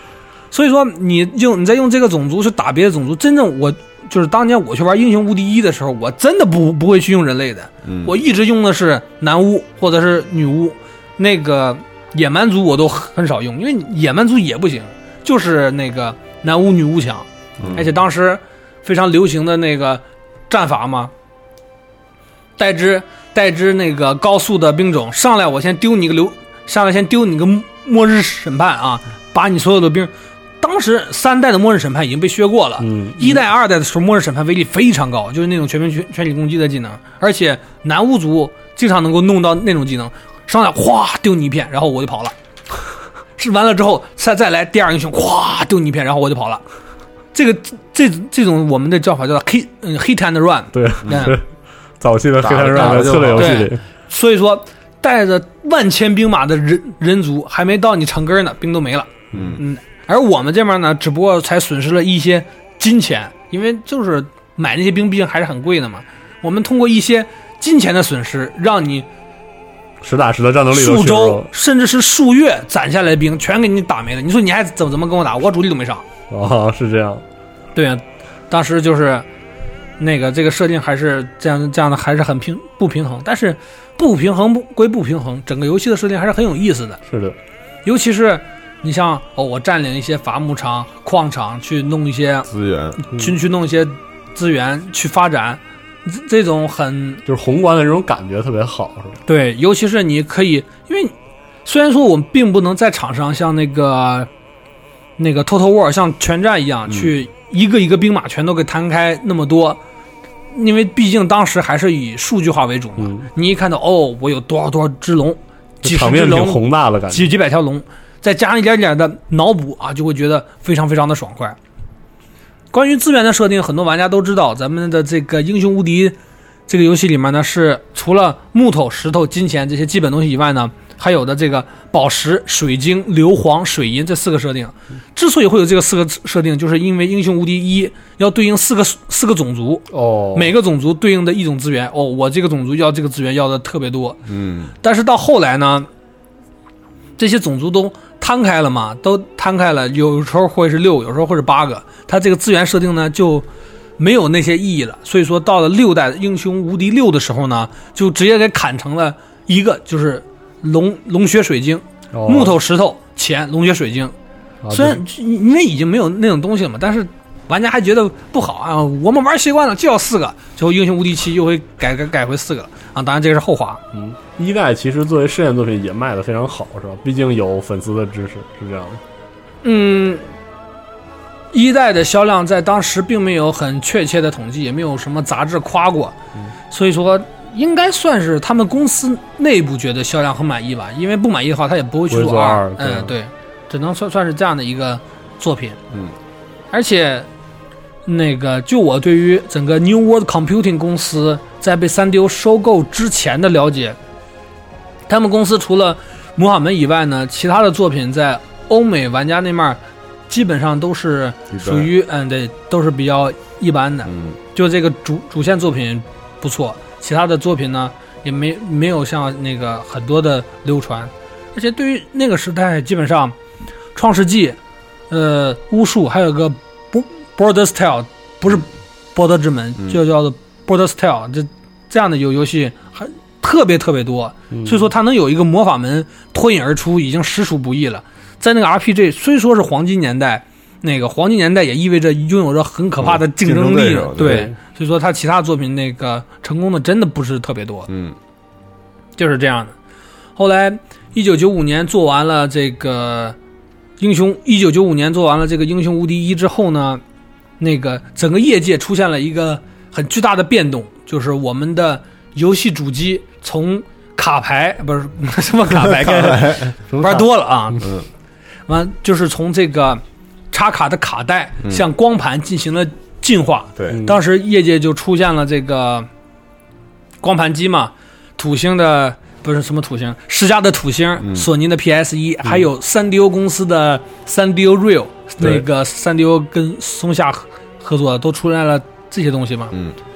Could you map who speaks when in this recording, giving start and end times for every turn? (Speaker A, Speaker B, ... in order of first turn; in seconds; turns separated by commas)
Speaker A: 0.5-21.1, Speaker B: 7.8-8.1, Speaker B: 17.6-17.9, Speaker A: 22.6-42.3, Speaker C: 32.8-33.4, Speaker A: 43.4-46.6, Speaker A: 47.3-51.4, Speaker C: 50.7-51.4, Speaker B: 51.0-51.3, Speaker C: 52.0-53.8, Speaker B: 52.4-53.6, Speaker A: 53.4-69.1, Speaker B: 59.3-59.6, Speaker C: 70.0-71.5, Speaker A: 70.7-76.0, Speaker C: 76.3-77.2, Speaker A: 77.8-79.2, Speaker A: 80.0-87.0, Speaker C: 87.1-87.4, Speaker A: 87.8-92.5, Speaker B: 92.5-93.0, Speaker A: 93.0-97.2, Speaker C: 97.3-99.2, Speaker A: 99.3-101.1, Speaker A: 101.7-104.3, Speaker A: 105.2-109.8, Speaker A: 110.5-121.6, Speaker C: 113.0-113.3, Speaker C: 115.8-117.3, Speaker A: 122.7-126.2, Speaker A: 126.7-144.2, Speaker C: 139.9-140.5, Speaker B: 144.3-144.7, Speaker A: 144.8-145.9, Speaker A: 147.2-153.5, Speaker A: 154.0-164.1, Speaker C: 162.1-162.6, Speaker C: 164.6-165.0, Speaker A: 164.7-173.8, Speaker C: 173.9-179.0, Speaker A: 179.6-180.2, Speaker A: 181.5-186.2, Speaker A: 186.7-195.8, Speaker C: 192.1-193.2, Speaker A: 196.7-197.3, Speaker A: 198.1-204.0, Speaker A: 205.1-223.3, Speaker B: 211.5-211.9, Speaker B: 214.1-214.4, Speaker A: 223.9-224.6, Speaker A: 225.1-247.9, Speaker C: 234.5-234.9, Speaker B: 243.0-244.5, Speaker C: 244.2-244.5, Speaker B: 247.9-248.2, Speaker A: 249.2-249.7, Speaker A: 250.4-253.4, Speaker A: 254.0-257.0, Speaker A: 257.6-267.9, Speaker B: 265.8-266.7, Speaker C: 266.9-267.3, Speaker B: 267.8-268.1, Speaker A: 268.7-270.0, Speaker A: 270.5-276.1, Speaker C: 273.9-274.2, Speaker A: 277.2-289.8, Speaker B: 281.2-281.5